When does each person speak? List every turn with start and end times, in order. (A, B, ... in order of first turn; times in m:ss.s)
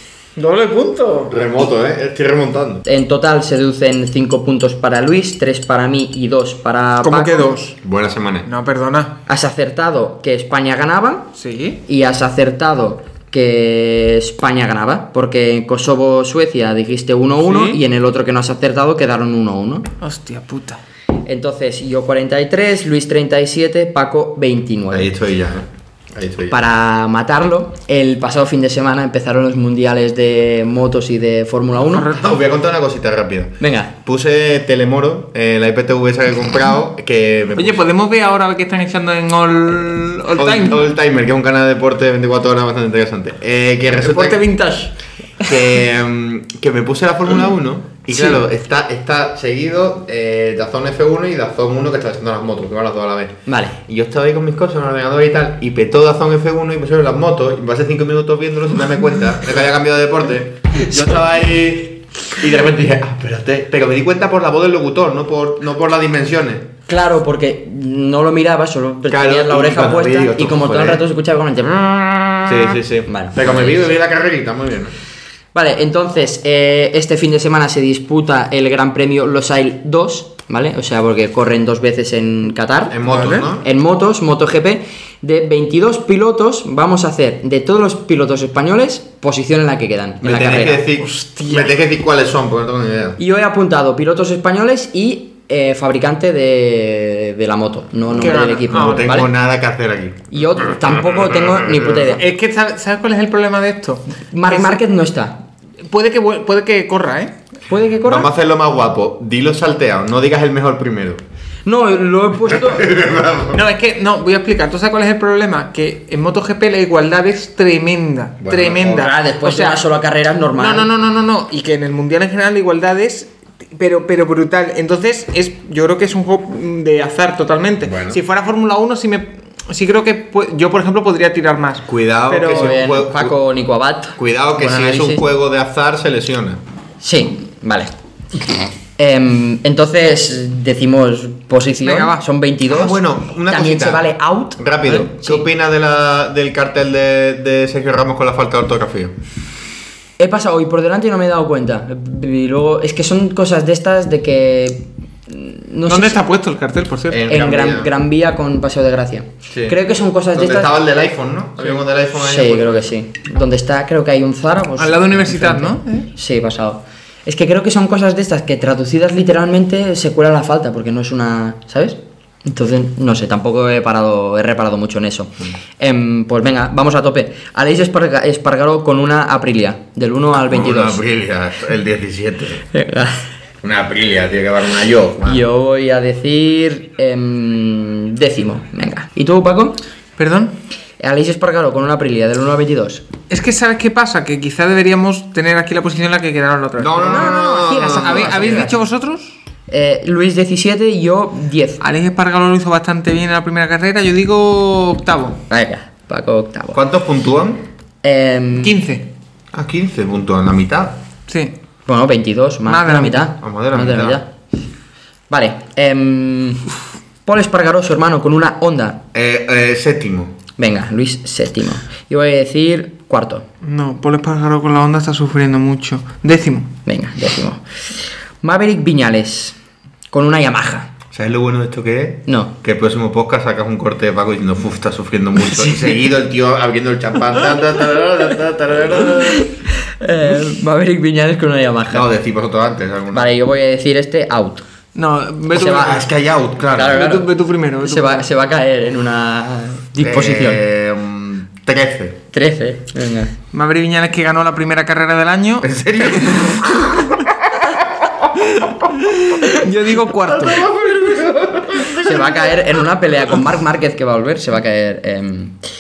0:00.4-0:01.3 A
0:01.3-0:02.8 B
0:02.8-0:07.5 C
0:07.0-0:07.8 A
0:07.8-0:08.5 B
0:08.4-0:09.2 A
0:09.3-0:11.3 C
0:11.4-0:11.8 A
0:11.8-0:19.9 C
0:17.4-0:17.8 A
0:20.0-0:20.8 A
0:21.2-0:25.1 C
0:24.9-0:26.6 B
0:26.5-0:32.1 C
0:31.9-0:32.4 A
0:32.1-0:37.8 B
0:33.6-0:33.9 C
0:37.6-0:40.9 A
0:40.4-0:44.5 B
0:44.0-0:44.9 A
0:45.4-1:06.7 B
0:53.5-0:53.8 C
1:06.9-1:13.8 C
1:09.1-1:11.0 B
1:12.5-1:14.9 B
1:15.5-1:23.0 C
1:22.9-1:23.7 B
1:23.1-1:23.5 A
1:23.6-1:30.8 C
1:30.2-1:33.2 B
1:31.0-1:31.7 A
1:33.2-1:39.3 C
1:38.1-1:39.3 A
1:38.7-1:40.3 B
1:40.3-1:42.2 C
1:41.6-1:41.9 B
1:42.1-1:44.8 A
1:44.3-1:45.4 C
1:45.8-1:47.4 A
1:47.7-1:48.3 C
1:48.0-1:51.2 B
1:51.6-1:52.8 C
1:52.5-1:53.6 B
1:53.5-1:59.8 A
1:58.4-1:59.1 B
1:58.9-2:00.9 C
2:00.6-2:12.8 A
2:07.8-2:08.2 B
2:11.8-2:13.4 B
2:12.4-2:15.2 C
2:14.2-2:16.6 B
2:17.0-2:17.9 C
2:19.0-2:25.5 C
2:21.8-2:22.2 A
2:22.7-2:24.1 B
2:24.6-2:29.1 B
2:30.2-2:36.2 C
2:35.9-2:37.2 A
2:37.1-2:37.9 B
2:37.3-2:40.7 C
2:39.5-2:39.8 B
2:40.3-2:42.9 B
2:42.2-3:01.0 C
2:44.8-2:46.1 A
3:00.5-3:02.6 B
3:02.7-3:03.2 C
3:03.6-3:05.4 B
3:05.2-3:09.8 C
3:10.2-3:10.5 A
3:11.0-3:13.0 C
3:13.3-3:19.4 A
3:16.8-3:18.6 B
3:17.0-3:18.7 C
3:19.7-3:21.8 C
3:21.8-3:25.4 A
3:25.5-3:26.8 C
3:26.7-3:27.6 B
3:28.0-3:28.7 C
3:28.6-3:29.1 A
3:29.5-3:31.0 B
3:31.3-3:31.5 A
3:31.8-3:34.3 C
3:32.7-3:33.3 A
3:33.4-3:34.2 B
3:35.3-3:39.0 C
3:39.1-3:40.3 B
3:40.6-3:43.4 C
3:43.6-3:46.7 A
3:46.8-3:47.6 C
3:48.4-3:49.6 C
3:50.1-3:50.9 C
3:51.1-3:59.4 B
3:52.3-3:52.5 C
3:59.3-4:02.0 C
4:01.9-4:03.3 B
4:03.1-4:04.6 C
4:04.9-4:06.0 A
4:05.5-4:06.0 C
4:05.6-4:07.1 B
4:06.7-4:07.3 C
4:06.8-4:08.3 A
4:07.8-4:10.6 C
4:10.0-4:12.2 B
4:12.3-4:13.3 C
4:13.5-4:16.5 A
4:15.6-4:18.5 B
4:19.0-4:20.7 A
4:20.3-4:22.4 B
4:21.9-4:25.6 C